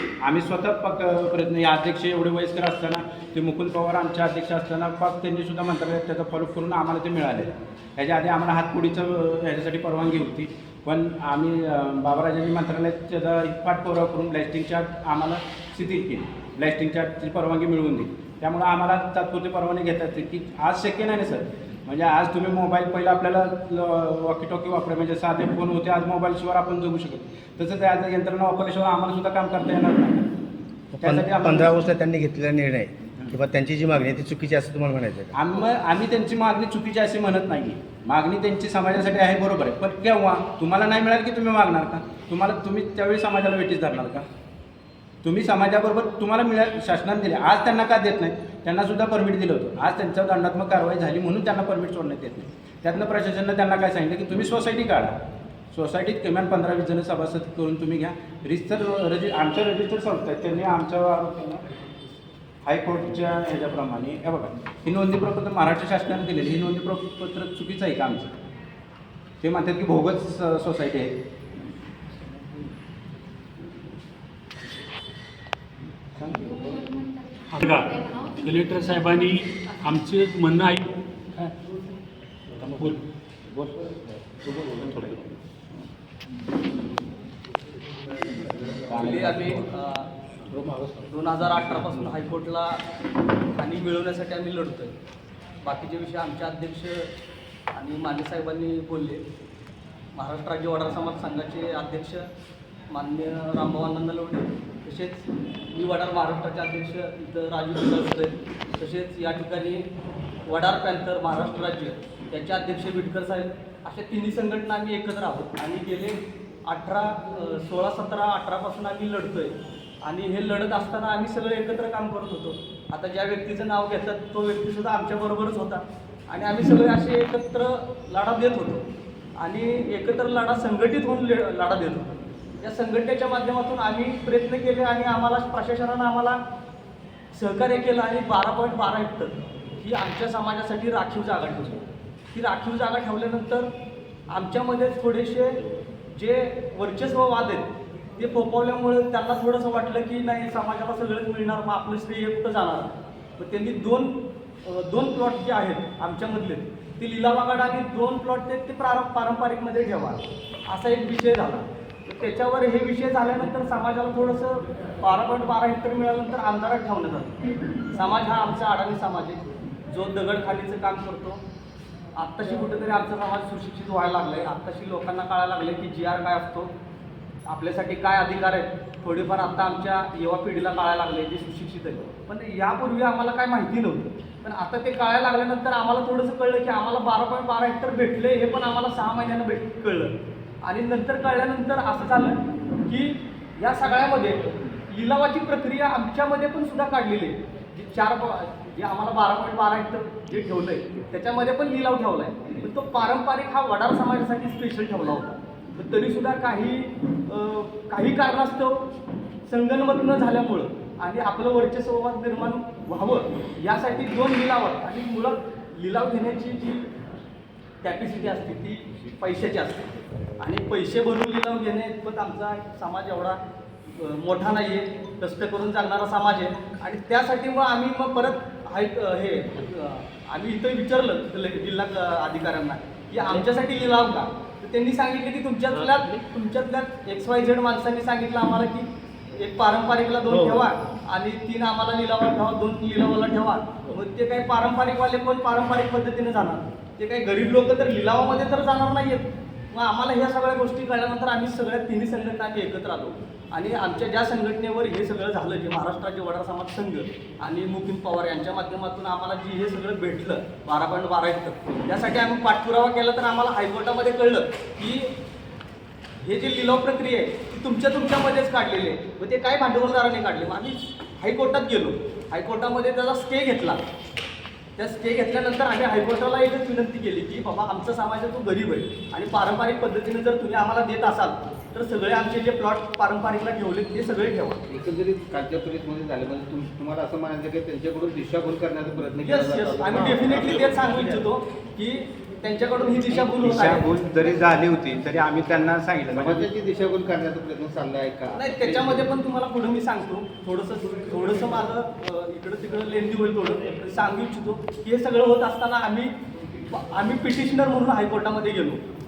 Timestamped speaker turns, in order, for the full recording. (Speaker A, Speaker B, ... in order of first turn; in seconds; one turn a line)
Speaker A: 0.2-30.3
Speaker B: 30.9-35.4
Speaker A: 31.0-31.8
Speaker A: 35.3-44.3
Speaker A: 45.2-55.2
Speaker A: 55.7-61.6
Speaker A: 62.6-68.3
Speaker A: 69.4-71.2
Speaker B: 76.3-76.7
Speaker C: 77.5-81.5
Speaker C: 82.6-83.0
Speaker A: 88.9-89.6
Speaker D: 88.9-90.1
Speaker D: 91.0-92.8
Speaker D: 93.6-95.0
Speaker D: 95.6-97.1
Speaker D: 97.7-99.2
Speaker D: 100.1-102.3
Speaker D: 102.9-109.9
Speaker D: 110.5-128.8
Speaker D: 129.4-136.4
Speaker D: 137.3-143.7
Speaker D: 144.3-167.4
Speaker D: 167.9-171.4
Speaker D: 172.2-176.7
Speaker D: 177.5-208.9
Speaker D: 209.5-216.9
Speaker D: 217.8-219.9
Speaker D: 220.4-223.4
Speaker D: 223.9-265.1
Speaker D: 266.2-273.8
Speaker D: 274.8-284.6
Speaker E: 284.7-291.2
Speaker D: 289.2-293.9
Speaker A: 293.4-296.5
Speaker E: 296.1-299.1
Speaker D: 298.3-306.1
Speaker D: 306.7-308.8